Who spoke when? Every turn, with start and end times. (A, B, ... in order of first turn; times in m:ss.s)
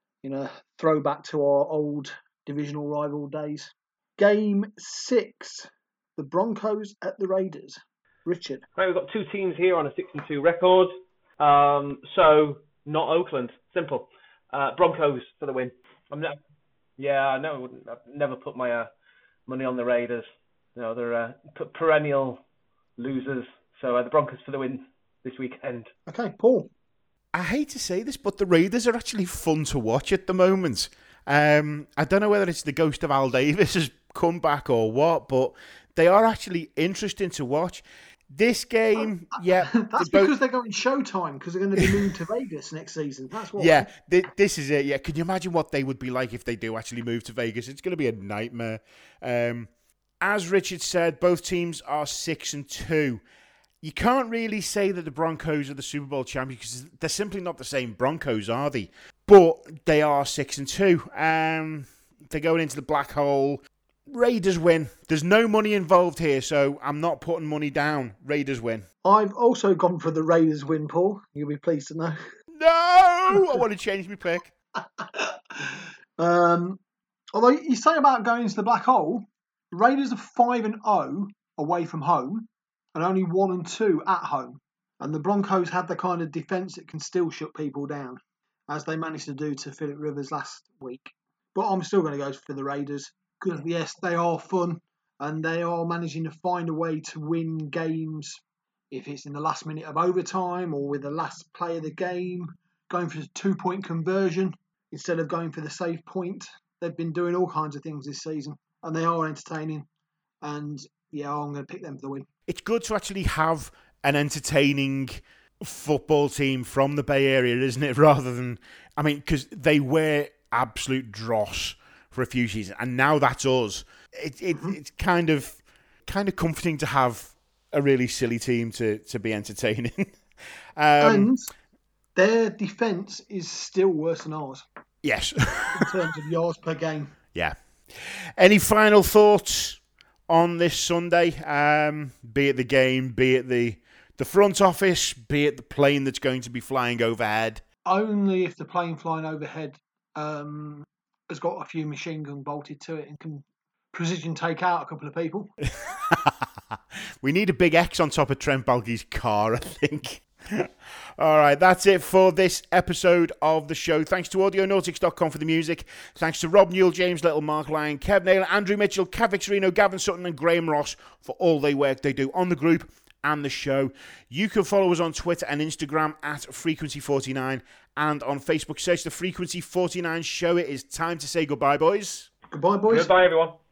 0:00.2-0:08.6 A
0:08.8-0:16.4 B
0:17.0-0:18.9 B
0:19.5-0:22.4 B
0:23.0-0:25.9 B
0:26.1-0:26.7 A
0:27.3-0:40.3 C
0:39.7-0:43.9 A
0:41.8-0:42.0 C
0:43.6-0:49.7 C
0:50.2-0:53.2 C
0:53.8-1:08.9 C
1:09.0-1:12.2 A
1:12.5-1:14.5 C
1:15.0-1:16.8 A
1:17.3-1:49.9 A
1:50.4-1:52.3 A
1:52.5-2:10.2 C
2:10.8-2:11.3 C
2:11.0-2:11.5 A
2:12.2-2:14.6 A
2:15.0-2:15.9 C
2:15.7-2:17.2 A
2:17.3-2:27.6 C
2:27.9-2:35.5 A
2:35.8-2:36.4 C
2:37.2-3:02.3 C
3:02.5-3:03.1 A
3:02.9-3:03.6 B